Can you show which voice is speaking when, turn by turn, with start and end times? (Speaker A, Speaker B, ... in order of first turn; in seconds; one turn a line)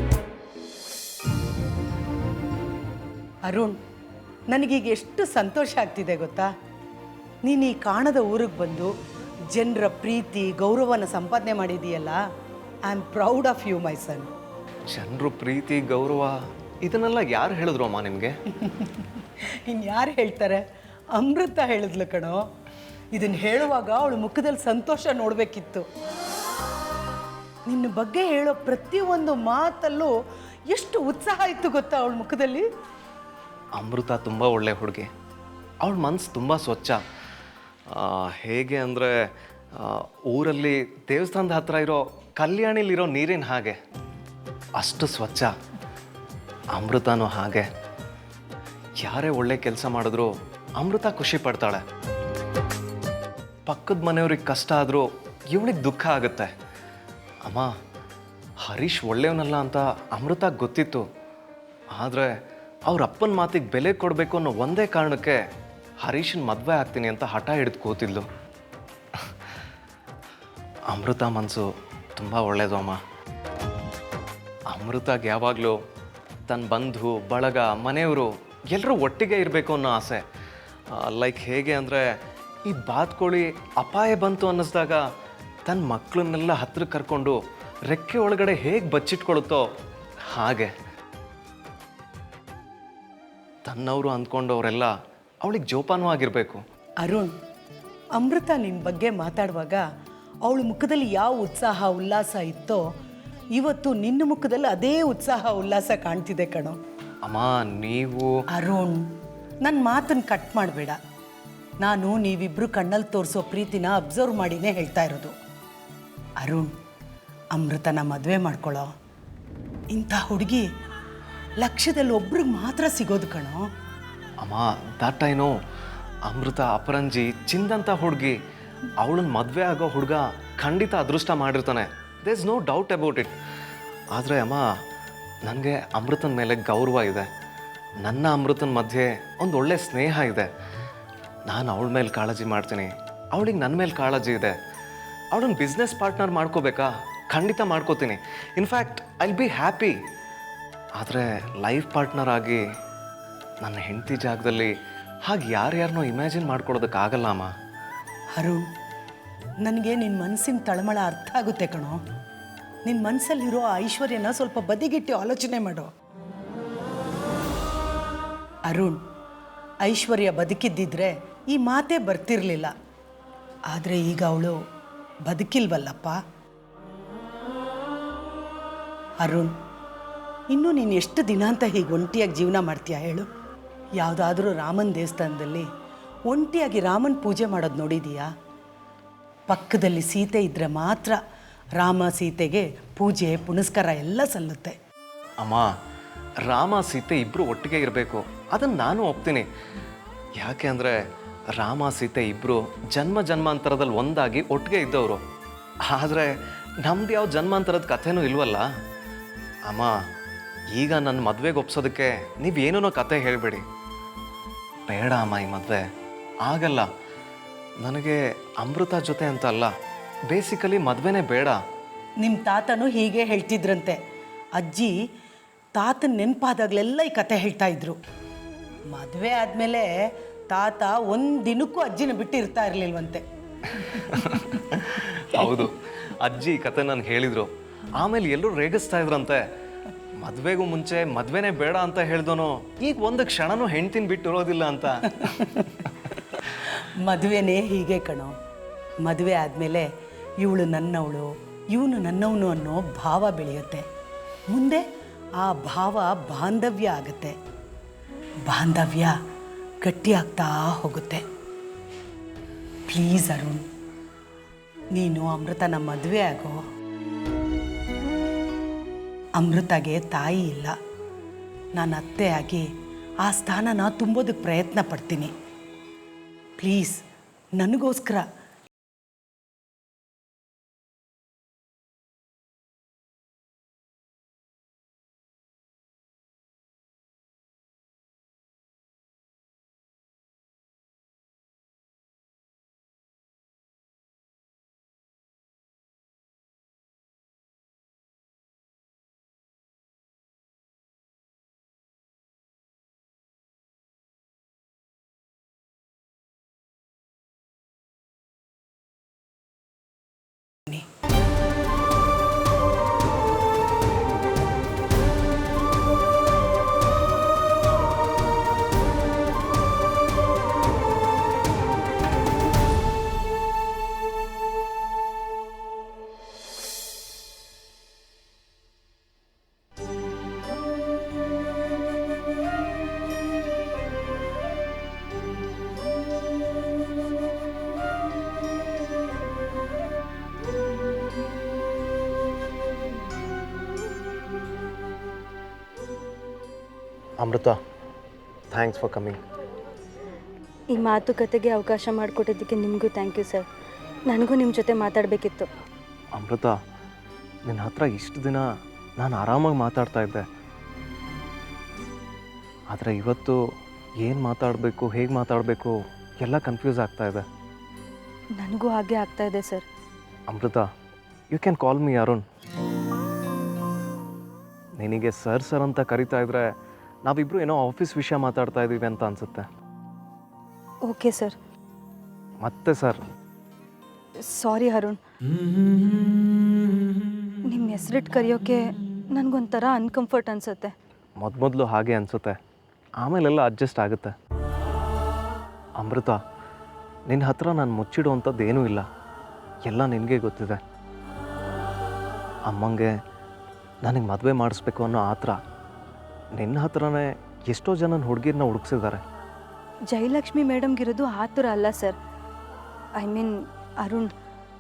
Speaker A: 3.5-3.8
Speaker A: 4.5-6.5
Speaker A: 7.4-8.9
Speaker A: 9.5-12.2
Speaker A: 12.8-14.3
Speaker B: 14.9-18.3
Speaker A: 18.6-20.6
Speaker A: 21.1-22.4
Speaker A: 23.1-25.9
Speaker A: 27.7-30.1
Speaker A: 30.7-32.7
Speaker B: 33.8-35.1
Speaker B: 35.8-37.0
Speaker B: 37.9-39.1
Speaker B: 39.8-43.8
Speaker B: 44.8-45.5
Speaker B: 46.8-47.7
Speaker B: 49.0-51.8
Speaker B: 53.7-56.5
Speaker B: 57.5-57.7
Speaker B: 58.6-61.0
Speaker B: 62.0-62.3
Speaker B: 62.9-65.4
Speaker B: 66.0-68.3
Speaker B: 70.9-73.0
Speaker B: 74.7-75.8
Speaker B: 76.5-80.2
Speaker B: 80.9-82.1
Speaker B: 82.7-85.0
Speaker B: 85.7-87.4
Speaker B: 87.9-89.6
Speaker B: 90.3-90.7
Speaker B: 93.7-94.9
Speaker B: 95.4-96.6
Speaker A: 97.0-97.3
Speaker A: 98.2-99.8
Speaker A: 100.4-102.8
Speaker A: 103.5-106.8
Speaker B: 107.2-108.3
Speaker A: 108.5-109.0
Speaker A: 109.6-111.0
Speaker A: 111.8-115.3
Speaker A: 116.4-116.7
Speaker A: 117.5-118.9
Speaker A: 119.9-120.7
Speaker A: 121.6-123.6
Speaker B: 124.4-125.5
Speaker B: 126.3-128.3
Speaker B: 129.0-133.3
Speaker B: 134.1-134.6
Speaker B: 135.4-137.3
Speaker B: 138.0-140.5
Speaker B: 141.5-144.6
Speaker B: 145.3-149.9
Speaker B: 151.0-152.6
Speaker B: 153.6-154.7
Speaker B: 155.2-157.5
Speaker A: 158.4-158.6
Speaker A: 159.6-162.0
Speaker A: 162.8-165.9
Speaker A: 168.7-169.0
Speaker A: 169.8-172.7
Speaker A: 173.7-174.6
Speaker A: 175.2-176.2
Speaker A: 179.2-179.5
Speaker A: 180.5-183.3
Speaker A: 184.0-185.7
Speaker A: 186.3-188.3
Speaker A: 189.5-191.2
Speaker A: 191.8-194.8
Speaker B: 195.4-195.7
Speaker B: 196.4-199.5
Speaker B: 200.4-201.0
Speaker B: 201.6-205.2
Speaker B: 205.8-208.7
Speaker B: 209.7-209.9
Speaker B: 210.7-213.6
Speaker B: 214.9-215.8
Speaker B: 216.4-216.9
Speaker B: 217.8-219.7
Speaker B: 220.3-221.6
Speaker A: 222.2-224.0
Speaker A: 224.5-224.9
Speaker A: 225.7-228.0
Speaker A: 228.9-229.9
Speaker A: 230.5-233.2
Speaker B: 233.8-239.4
Speaker B: 240.2-245.5
Speaker A: 245.2-245.7
Speaker A: 247.0-248.3
Speaker A: 249.0-249.9
Speaker A: 250.4-253.8
Speaker A: 254.5-254.8
Speaker A: 255.4-257.4
Speaker A: 258.5-259.1
Speaker A: 259.8-261.2
Speaker A: 262.9-263.6
Speaker A: 264.9-266.6
Speaker A: 269.4-270.8
Speaker A: 271.8-272.6
Speaker A: 273.2-275.3
Speaker A: 276.6-277.0
Speaker A: 277.6-278.2
Speaker B: 347.2-347.6
Speaker B: 348.5-349.2
Speaker C: 350.8-353.4
Speaker C: 354.1-355.5
Speaker B: 356.1-356.5
Speaker B: 357.5-358.4
Speaker B: 359.0-360.2
Speaker B: 362.7-363.4
Speaker B: 364.0-367.2
Speaker C: 368.4-369.6
Speaker B: 370.3-370.6
Speaker B: 371.3-372.2
Speaker B: 374.8-376.5
Speaker B: 377.1-379.5
Speaker C: 380.9-381.4
Speaker B: 382.4-383.0
Speaker C: 384.3-385.0
Speaker C: 387.5-390.7
Speaker B: 391.2-392.4
Speaker B: 393.0-394.1
Speaker B: 395.8-396.2
Speaker B: 397.1-398.9
Speaker B: 399.7-400.6
Speaker B: 402.5-402.9
Speaker B: 403.8-405.4
Speaker B: 406.4-409.0
Speaker C: 409.9-412.0
Speaker C: 413.0-414.1